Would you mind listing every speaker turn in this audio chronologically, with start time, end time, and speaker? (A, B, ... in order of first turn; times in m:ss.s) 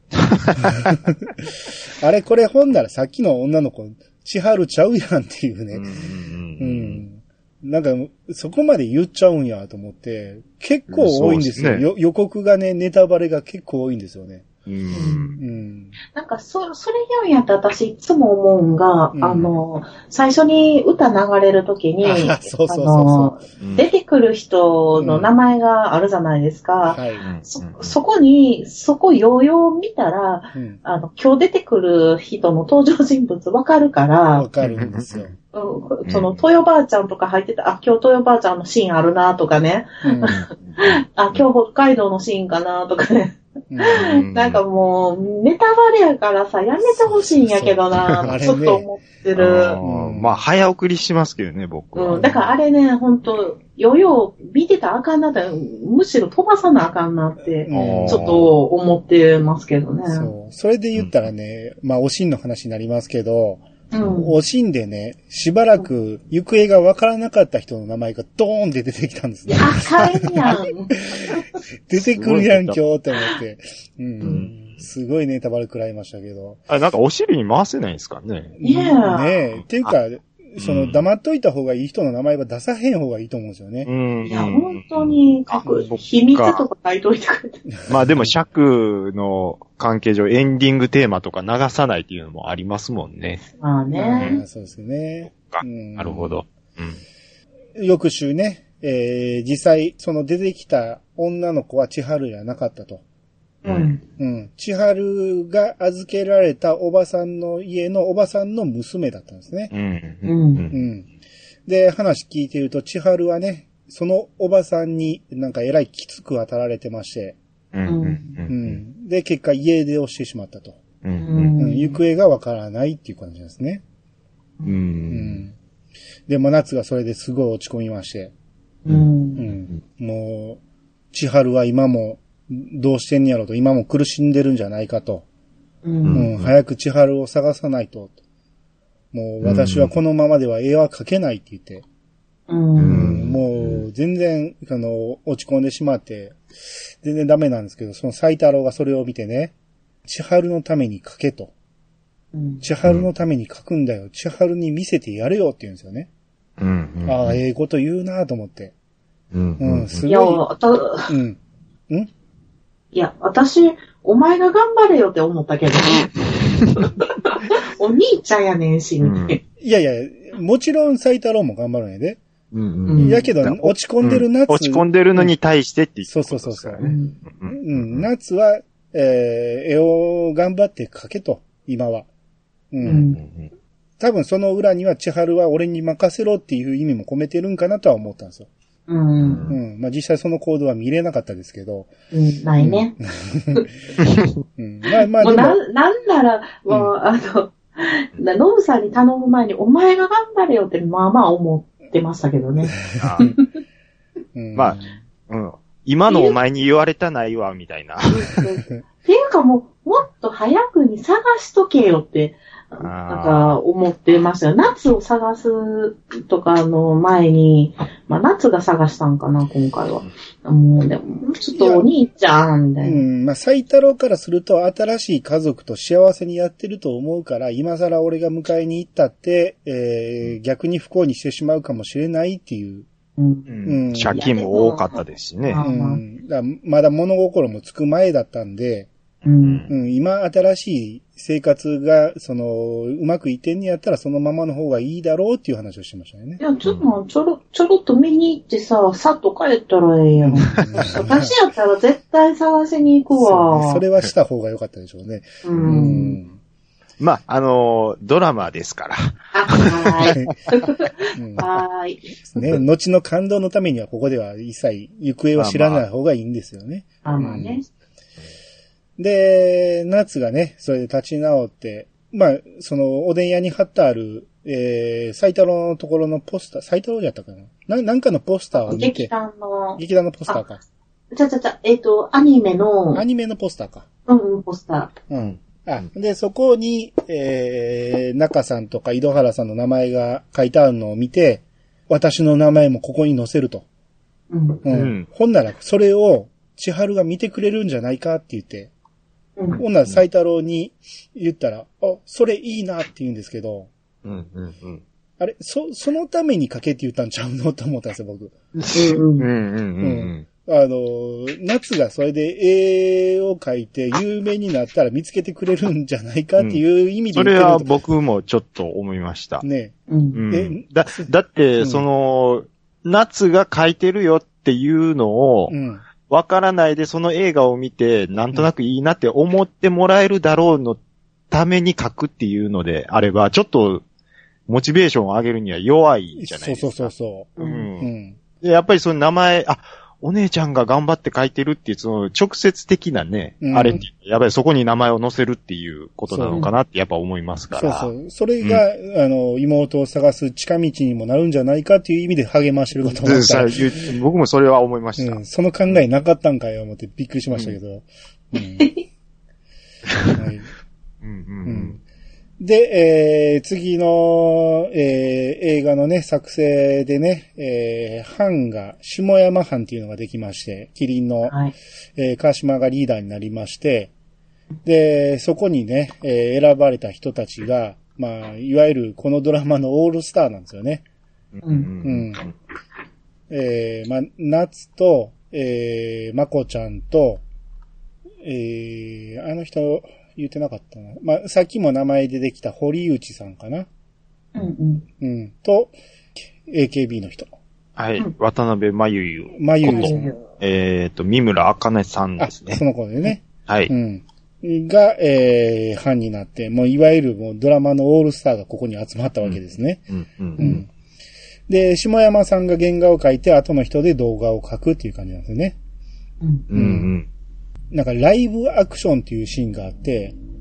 0:00.2-0:00.9 A
0:00.8-0:05.9 B
0:05.7-0:07.0 A
0:06.6-0:14.5 B
0:10.9-0:11.8 A
0:14.6-0:15.4 A
0:14.9-0:15.4 C
0:15.4-0:15.9 B
0:16.1-0:34.5 C
0:19.1-0:19.5 B
0:22.0-0:23.4 B
0:25.0-0:25.3 B
0:26.8-0:27.2 B
0:27.2-0:27.9 A
0:34.3-0:35.3 B
0:34.6-0:35.3 A
0:35.5-0:49.8 C
0:36.0-0:36.4 A
0:40.0-0:40.4 B
0:40.2-0:41.4 A
0:43.7-0:44.0 B
0:43.9-0:44.6 A
0:46.8-0:48.8 B
0:49.4-0:52.4 A
0:49.8-0:50.4 B
0:51.9-1:00.3 C
0:52.1-0:52.4 B
0:57.6-0:58.3 B
0:57.7-0:58.5 A
1:00.1-1:11.3 B
1:03.9-1:04.3 C
1:09.5-1:11.6 C
1:11.9-1:16.6 B
1:11.9-1:12.8 A
1:14.2-1:14.6 A
1:16.7-1:18.6 A
1:18.6-1:23.9 B
1:18.6-1:19.4 C
1:20.6-1:21.0 A
1:23.8-1:26.6 A
1:24.2-1:27.6 C
1:25.6-1:26.0 B
1:27.8-1:28.3 B
1:27.9-1:33.4 A
1:33.5-1:34.4 C
1:33.9-1:36.4 B
1:35.3-1:37.0 A
1:37.8-1:43.0 B
1:43.6-1:44.0 A
1:43.6-1:44.0 C
1:44.2-1:49.7 B
1:49.7-1:50.8 A
1:50.2-1:50.7 C
1:50.7-1:51.1 B
1:51.6-1:57.4 B
1:57.7-1:58.8 A
1:57.8-1:58.4 C
1:58.5-2:00.8 B
2:01.0-2:01.5 A
2:01.2-2:02.0 C
2:01.6-2:03.8 B
2:04.6-2:05.4 A
2:05.1-2:05.5 B
2:06.3-2:08.3 B
2:08.8-2:09.5 C
2:09.4-2:10.6 B
2:11.1-2:15.2 B
2:15.8-2:16.3 C
2:16.0-2:16.5 A
2:16.1-2:18.1 B
2:19.1-2:21.8 B
2:19.4-2:19.9 A
2:22.5-2:23.2 C
2:22.8-2:23.8 A
2:22.9-2:26.4 B
2:27.0-2:29.5 B
2:30.0-2:31.5 B
2:32.3-2:32.6 C
2:32.6-2:36.1 B
2:36.6-2:37.4 A
2:37.0-2:38.7 B
2:39.3-2:40.0 A
2:39.6-2:40.4 B
2:40.1-2:41.1 C
2:41.1-2:42.1 B
2:42.9-2:49.4 C
2:49.0-2:49.4 A
2:49.6-2:52.2 B
2:52.5-2:58.1 A
2:52.9-2:53.3 C
2:53.0-2:55.3 B
2:56.1-2:56.9 B
2:56.8-2:57.2 C
2:57.5-3:02.1 B
3:02.7-3:03.1 B
3:02.8-3:03.5 A
3:02.8-3:03.2 C
3:04.0-3:08.5 B
3:08.9-3:09.5 C
3:09.2-3:09.6 A
3:09.5-3:11.9 B
3:12.1-3:13.0 C
3:12.6-3:13.6 B
3:14.0-3:14.3 A
3:14.6-3:15.6 B
3:15.2-3:23.4 C
3:22.9-3:23.4 A
3:24.3-3:25.0 B
3:24.5-3:28.4 A
3:26.1-3:26.4 C
3:28.1-3:43.0 C
3:32.8-3:33.6 A
3:41.5-3:41.8 B
3:42.8-3:52.8 B
3:53.2-3:53.5 C
3:53.5-3:55.6 A
3:53.6-3:54.2 B
3:54.1-3:56.0 C
3:55.6-3:58.9 B
3:59.2-3:59.6 C
3:59.4-3:59.7 A
3:59.7-4:06.4 B
4:06.4-4:13.8 C
4:06.6-4:06.9 A
4:10.2-4:11.3 B
4:10.5-4:11.0 A
4:13.1-4:16.4 B
4:15.4-4:16.2 C
4:17.0-4:20.2 A
4:19.3-4:22.0 C
4:21.1-4:21.5 B
4:22.3-4:27.6 B
4:25.4-4:25.8 A
4:27.0-4:27.6 C
4:29.0-4:39.1 B
4:38.5-4:40.4 C
4:39.8-4:40.6 B
4:41.1-4:43.0 C
4:42.9-4:43.8 B
4:44.1-4:44.9 C
4:45.1-4:53.6 B
4:45.2-4:45.8 A
4:54.3-4:54.6 C
4:54.6-4:58.7 B
4:54.7-4:55.0 A
4:59.6-5:03.7 B
5:04.0-5:04.8 A
5:05.2-5:08.3 B
5:08.6-5:10.2 A
5:08.7-5:09.3 C
5:09.8-5:17.7 B
5:17.1-5:19.4 A
5:19.4-5:19.7 B
5:19.9-5:20.2 C
5:20.1-5:25.5 A
5:20.3-5:21.8 B
5:25.5-5:25.8 B
5:26.1-5:30.8 A
5:31.3-5:33.8 A
5:34.5-5:37.9 A
5:36.2-5:38.2 B
5:37.4-5:37.7 C
5:38.4-5:47.9 A
5:43.4-5:43.8 B
5:46.1-5:46.4 B
5:47.5-5:53.8 B
5:52.8-5:55.8 A
5:55.0-5:58.7 B
5:58.4-5:58.8 C
6:00.1-6:00.5 B
6:01.0-6:01.8 A
6:01.4-6:01.8 B
6:02.4-6:11.4 B
6:11.3-6:11.5 C
6:12.0-6:13.9 B
6:14.6-6:20.8 B
6:21.3-6:22.3 A
6:21.8-6:22.2 B
6:23.3-6:27.2 B
6:28.2-6:33.7 B
6:34.3-6:34.8 C
6:35.0-6:35.7 B
6:36.4-6:37.3 B
6:37.8-6:42.6 A
6:39.4-6:40.1 B
6:39.6-6:40.2 C
6:42.2-6:49.8 B
6:43.4-6:43.7 A
6:49.2-6:50.6 A
6:50.4-6:50.7 B
6:51.5-6:55.6 B
6:56.5-6:57.1 A
6:56.5-6:56.9 B
6:57.7-7:00.2 B